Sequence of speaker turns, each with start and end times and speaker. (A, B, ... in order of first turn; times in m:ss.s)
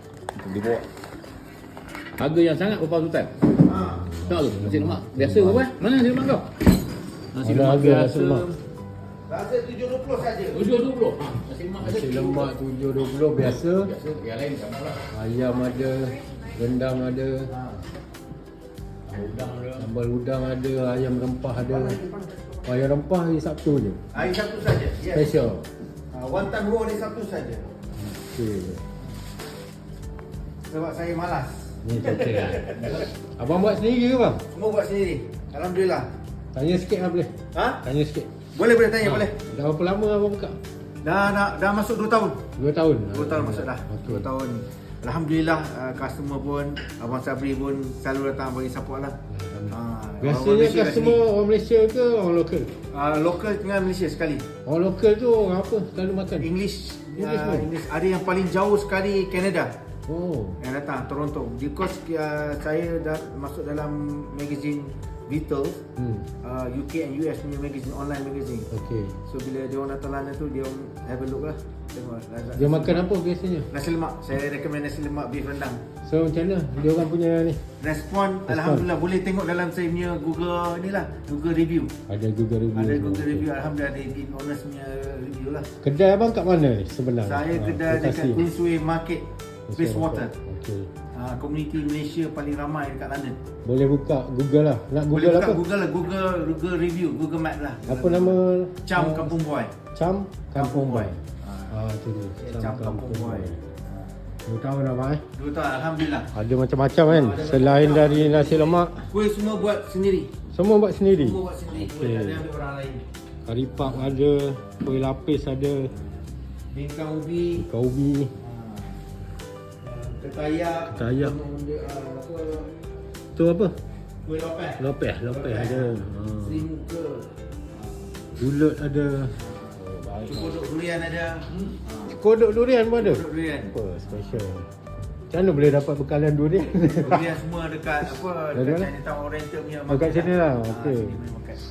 0:00.3-0:00.8 A
0:02.2-0:03.3 A
0:03.6-0:04.1 B
0:04.0-0:05.6 C
0:04.2-0:06.5 A
0:07.3-0:08.6 A
0:07.4-0:08.4 C
0:09.2-0:10.6 B
0:10.5-0:12.5 A
0:11.8-0:13.9 C
0:13.6-0:15.0 A
0:15.1-0:17.5 C
0:17.5-0:17.8 B
0:19.0-0:19.9 A
0:19.8-0:22.0 C
0:21.6-0:22.3 B
0:22.6-0:24.0 C
0:24.1-0:25.4 B
0:25.0-0:25.6 C
0:26.1-0:27.7 B
0:28.0-0:28.8 C
0:30.7-0:33.0 B
0:31.8-0:34.4 C
0:34.5-0:36.1 B
0:36.5-0:38.3 C
0:37.5-0:37.8 B
0:38.5-0:39.4 B
0:39.0-0:40.6 C
0:41.0-0:42.4 B
0:42.6-0:44.2 C
0:43.1-0:49.2 B
0:49.3-0:52.7 C
0:49.7-0:51.2 B
0:52.9-0:54.5 B
0:54.6-0:56.5 C
0:56.3-0:59.8 B
0:57.2-0:57.7 C
1:00.1-1:00.6 C
1:00.6-1:05.8 B
1:06.0-1:06.3 C
1:06.4-1:08.7 B
1:08.7-1:09.2 C
1:09.2-1:13.0 B
1:12.6-1:13.7 C
1:13.7-1:15.8 B
1:16.0-1:17.6 C
1:17.8-1:21.9 B
1:18.5-1:18.8 C
1:22.1-1:23.5 C
1:22.7-1:25.7 B
1:25.8-1:28.4 C
1:27.2-1:29.2 B
1:29.7-1:30.9 C
1:29.7-1:30.3 B
1:31.1-1:33.4 B
1:33.6-1:35.6 C
1:35.1-1:39.7 B
1:37.8-1:39.3 C
1:39.9-1:41.2 C
1:40.5-1:41.7 B
1:41.7-1:43.6 C
1:42.4-1:44.1 B
1:44.4-1:45.2 C
1:45.3-1:46.3 B
1:46.3-1:49.1 C
1:47.0-1:50.3 B
1:50.5-1:52.4 C
1:51.1-1:53.0 B
1:53.4-1:55.9 C
1:53.8-1:54.1 B
1:56.7-1:57.6 B
1:57.6-1:58.3 C
1:58.4-1:59.0 B
1:59.8-2:02.7 B
2:00.9-2:01.4 C
2:03.3-2:03.7 C
2:04.2-2:08.1 B
2:04.8-2:06.6 C
2:08.4-2:10.5 C
2:09.4-2:12.2 B
2:12.1-2:14.7 C
2:12.9-2:13.7 B
2:15.3-2:17.3 C
2:16.8-2:21.6 B
2:18.5-2:18.9 C
2:19.9-2:21.2 C